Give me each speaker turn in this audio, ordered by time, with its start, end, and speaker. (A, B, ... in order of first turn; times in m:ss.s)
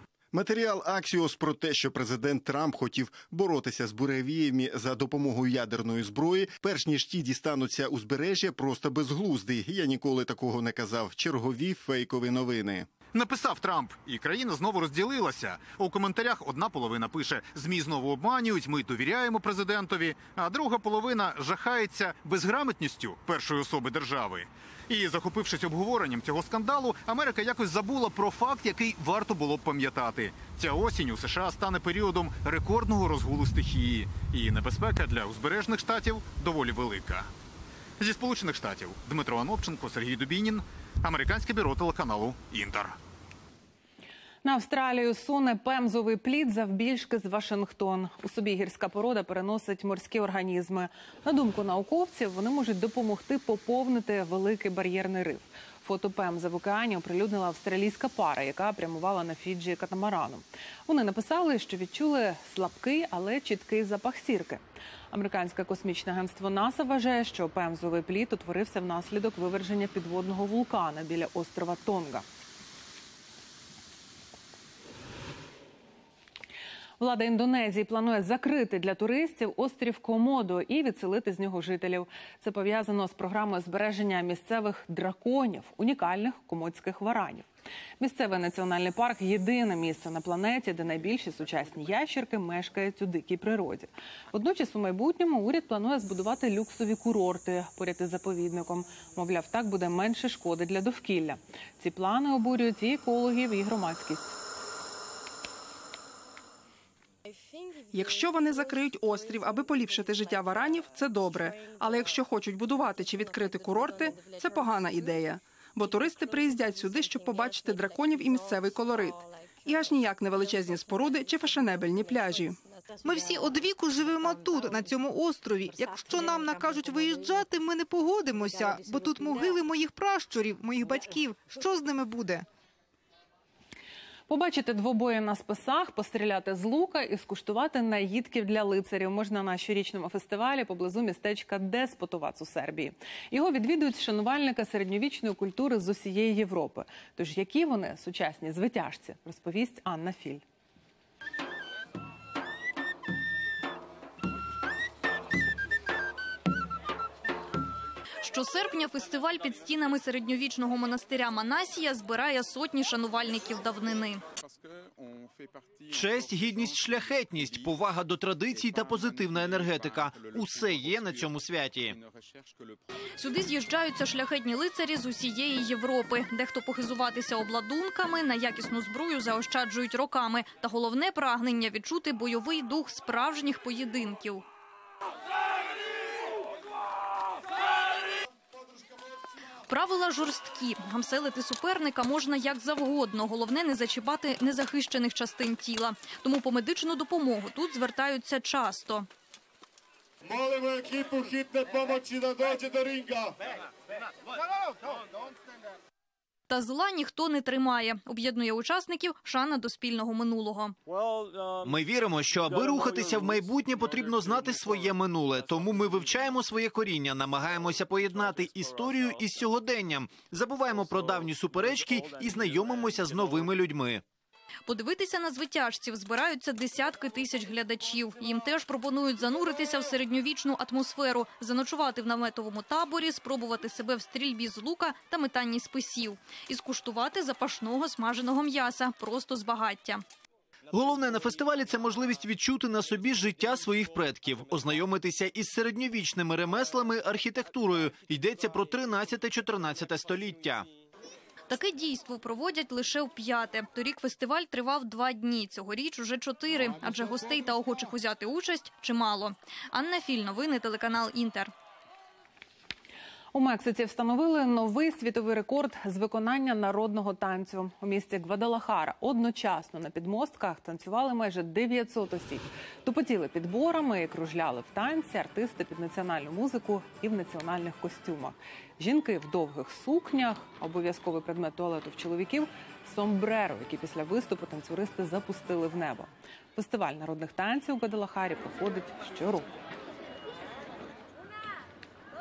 0:00.3-0:12.9 A
0:13.1-0:37.3 B
0:38.0-0:43.0 B
0:44.4-1:12.2 C
1:17.0-1:27.4 C
1:28.0-1:44.4 C
1:47.9-2:02.6 D
2:03.0-2:12.4 E
2:14.3-2:30.4 C
2:38.2-2:44.2 F
2:45.9-2:52.0 G
2:53.2-3:04.4 F
3:09.7-3:19.1 F
3:20.6-3:23.1 H
3:26.5-3:30.7 F
3:31.6-3:44.0 G
3:44.7-4:00.0 F
4:00.7-4:10.7 G
4:11.5-4:21.5 F
4:23.3-4:49.5 C